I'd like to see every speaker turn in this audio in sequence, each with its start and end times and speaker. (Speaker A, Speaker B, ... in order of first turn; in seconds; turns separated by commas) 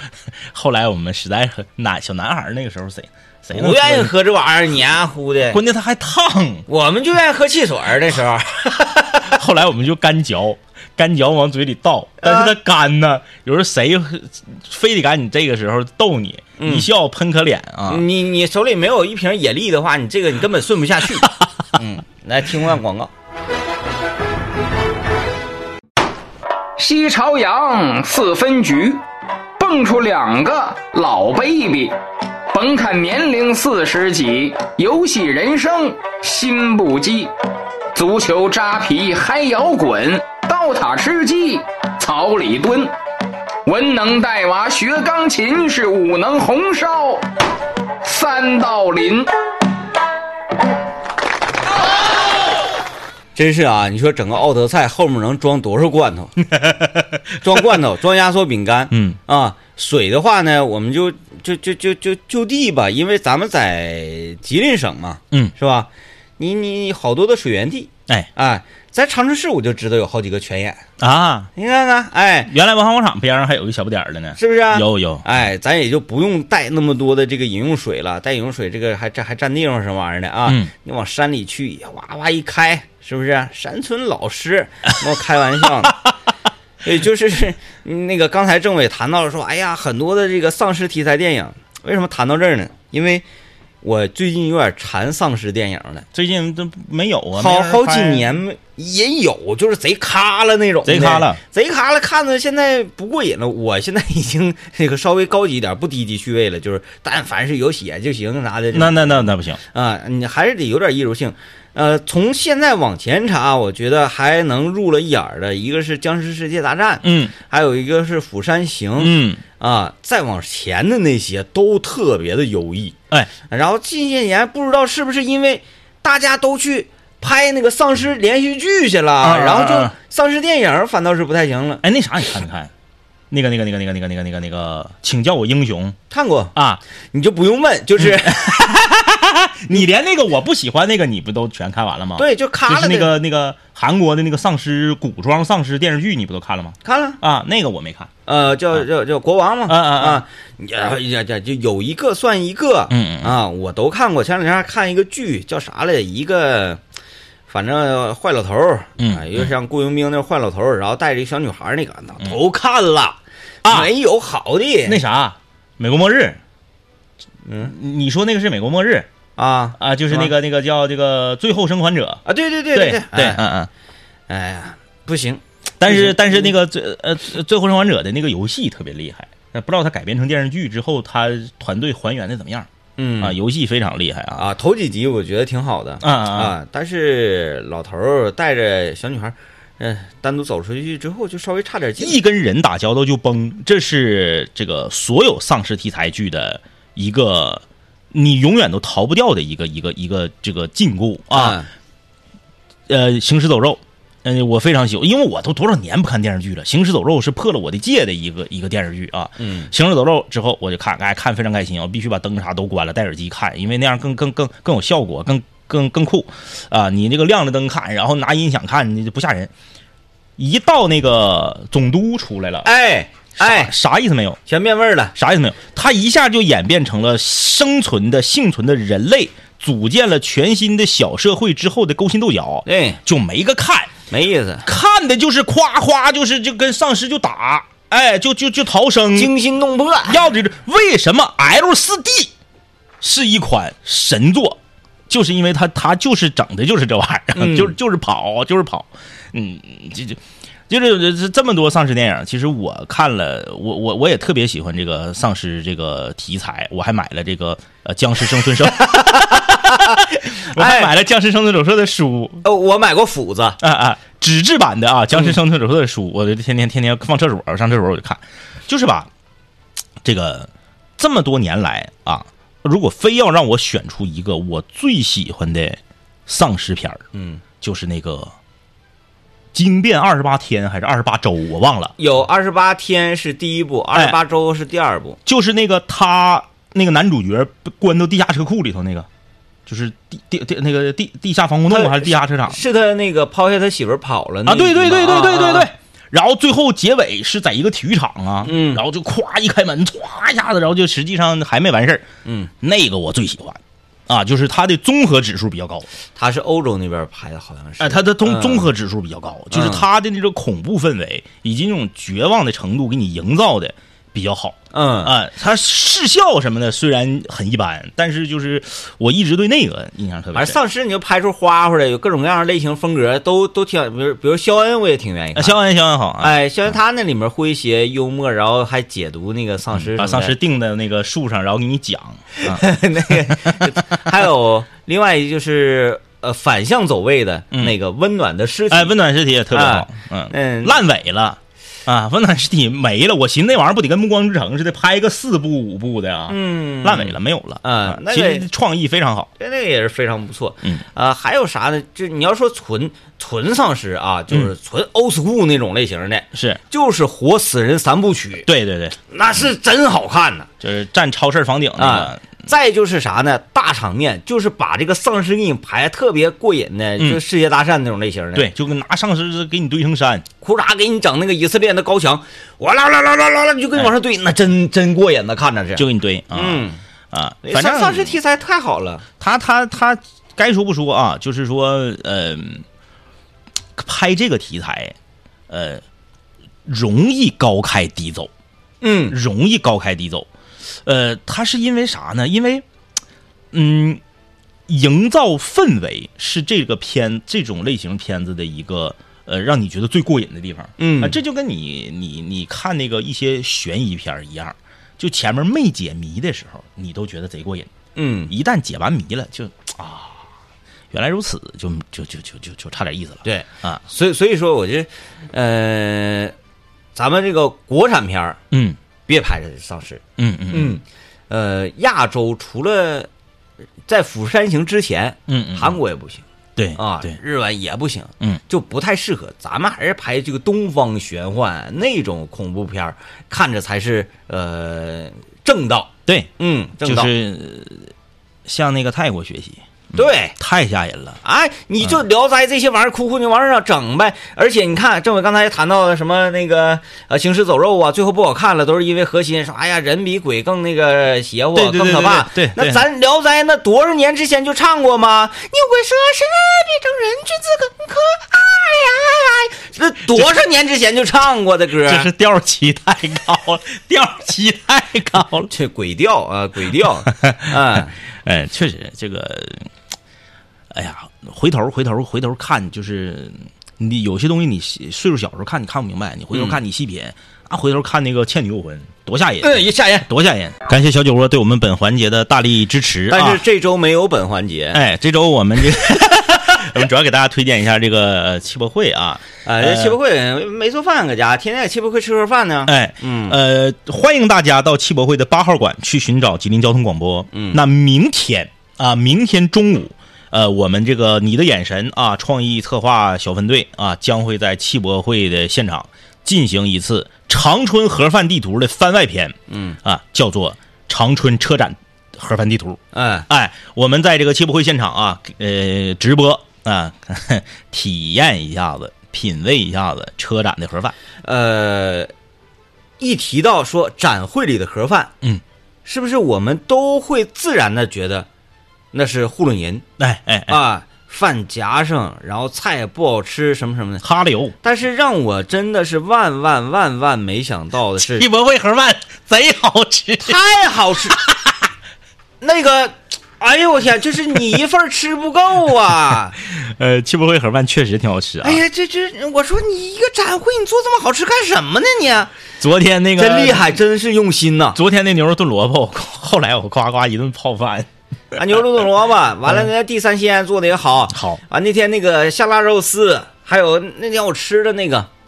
Speaker A: 0.5-4.1, Speaker B: 3.5-5.6, Speaker A: 5.5-6.7, Speaker B: 6.7-8.7, Speaker A: 9.1-18.0, Speaker B: 12.2-12.6, Speaker B: 16.6-16.9, Speaker B: 17.9-23.1, Speaker C: 26.8-29.0, Speaker C: 29.6-31.9, Speaker C: 32.5-37.3, Speaker C: 37.9-42.9, Speaker C: 43.7-47.2, Speaker C: 48.0-49.3, Speaker B: 53.4-56.4, Speaker A: 56.6-57.0, Speaker B: 57.4-70.8, Speaker A: 58.9-59.2, Speaker A: 71.0-71.5, Speaker B: 71.6-72.5, Speaker A: 72.5-75.2, Speaker B: 74.4-86.0, Speaker A: 80.5-80.7, Speaker B: 86.8-93.2, Speaker B: 93.8-96.1, Speaker A: 96.1-98.3, Speaker B: 97.4-123.0, Speaker A: 100.8-101.4, Speaker A: 108.7-109.6, Speaker A: 117.0-117.3, Speaker A: 119.0-119.4, Speaker B: 123.5-131.8, Speaker A: 129.2-129.9, Speaker A: 131.8-132.7, Speaker A: 133.3-136.0, Speaker B: 136.1-136.5, Speaker A: 136.6-136.8, Speaker B: 137.1-138.6, Speaker A: 138.0-148.1, Speaker B: 142.2-143.2, Speaker B: 146.8-147.2, Speaker B: 148.3-156.8, Speaker A: 149.7-150.2, Speaker A: 152.9-153.4, Speaker B: 157.5-165.0, Speaker A: 159.0-159.5, Speaker A: 163.6-163.9, Speaker A: 164.9-166.4, Speaker B: 167.5-167.7, Speaker A: 167.6-169.1, Speaker B: 169.4-170.3, Speaker A: 169.8-173.7, Speaker B: 172.3-173.4, Speaker B: 174.3-176.5, Speaker A: 175.8-182.7, Speaker B: 183.0-183.4, Speaker A: 183.2-184.4, Speaker B: 184.3-192.2, Speaker A: 186.0-186.5, Speaker A: 192.0-201.6, Speaker B: 201.3-201.7, Speaker A: 202.9-219.5, Speaker B: 209.4-209.7, Speaker A: 220.4-222.7, Speaker B: 222.6-223.7, Speaker A: 223.4-224.4, Speaker B: 224.5-225.1, Speaker A: 225.2-233.9, Speaker B: 232.7-233.0, Speaker B: 234.1-234.7, Speaker A: 234.6-239.3, Speaker B: 239.1-240.2, Speaker A: 240.1-242.3, Speaker A: 243.0-262.4, Speaker B: 247.3-247.8, Speaker B: 258.9-260.9, Speaker B: 262.4-263.6, Speaker A: 263.6-269.1, Speaker A: 270.0-277.0, Speaker B: 277.1-277.4, Speaker A: 277.6-278.3, Speaker A: 279.5-281.9, Speaker B: 282.0-285.2, Speaker A: 285.3-289.1, Speaker A: 289.7-292.6, Speaker B: 291.7-295.7, Speaker A: 294.5-302.1, Speaker B: 298.4-298.8, Speaker B: 302.2-302.5, Speaker A: 302.6-305.9, Speaker B: 306.2-308.7, Speaker A: 307.8-320.6, Speaker B: 309.5-309.9, Speaker B: 314.7-315.1, Speaker B: 320.3-325.6, Speaker A: 325.4-326.4, Speaker B: 326.2-330.4, Speaker A: 329.7-333.8, Speaker B: 332.4-339.0, Speaker A: 338.7-349.3, Speaker B: 339.5-340.8, Speaker B: 346.3-348.5, Speaker B: 349.4-358.5, Speaker A: 356.3-356.6, Speaker A: 358.5-359.0, Speaker B: 359.1-360.5, Speaker A: 360.6-362.2, Speaker B: 361.8-368.5, Speaker A: 368.4-370.3, Speaker B: 370.4-376.8, Speaker A: 375.8-378.2, Speaker B: 377.4-379.0, Speaker A: 379.2-382.6, Speaker A: 383.8-384.9, Speaker A: 385.5-385.8, Speaker A: 386.7-388.3, Speaker B: 388.8-389.2, Speaker A: 389.1-390.3, Speaker A: 390.9-392.6, Speaker A: 393.5-394.0, Speaker A: 394.7-407.7, Speaker B: 400.8-401.2, Speaker B: 408.0-408.3, Speaker A: 408.3-410.1, Speaker A: 410.9-413.8, Speaker B: 413.2-416.3, Speaker B: 416.9-418.4, Speaker A: 418.5-418.8, Speaker B: 419.1-423.1, Speaker A: 420.2-420.8, Speaker B: 423.9-426.2, Speaker A: 425.3-425.8, Speaker A: 426.6-427.2, Speaker B: 426.8-437.1, Speaker A: 436.1-437.9, Speaker A: 438.5-441.2, Speaker B: 439.9-440.4, Speaker B: 441.2-462.1, Speaker A: 451.5-452.8, Speaker A: 461.9-465.5, Speaker B: 465.5-467.9, Speaker A: 467.1-469.7, Speaker A: 470.7-483.4, Speaker B: 479.4-480.1, Speaker B: 483.1-484.8, Speaker A: 484.7-490.0, Speaker B: 489.4-493.4, Speaker A: 492.7-521.0, Speaker B: 497.3-497.6, Speaker B: 509.5-509.8, Speaker B: 512.9-513.3, Speaker B: 521.2-522.1, Speaker B: 523.0-525.1, Speaker B: 525.9-528.3, Speaker B: 528.9-529.9, Speaker A: 530.0-530.6, Speaker B: 530.5-534.0, Speaker A: 534.0-534.5, Speaker B: 534.6-538.3, Speaker A: 538.0-540.4, Speaker B: 540.2-541.2, Speaker B: 542.4-546.4, Speaker A: 546.5-548.6, Speaker B: 548.4-552.3, Speaker A: 552.6-553.8, Speaker B: 553.2-554.8, Speaker A: 554.7-557.9, Speaker B: 558.4-565.1, Speaker A: 561.1-561.4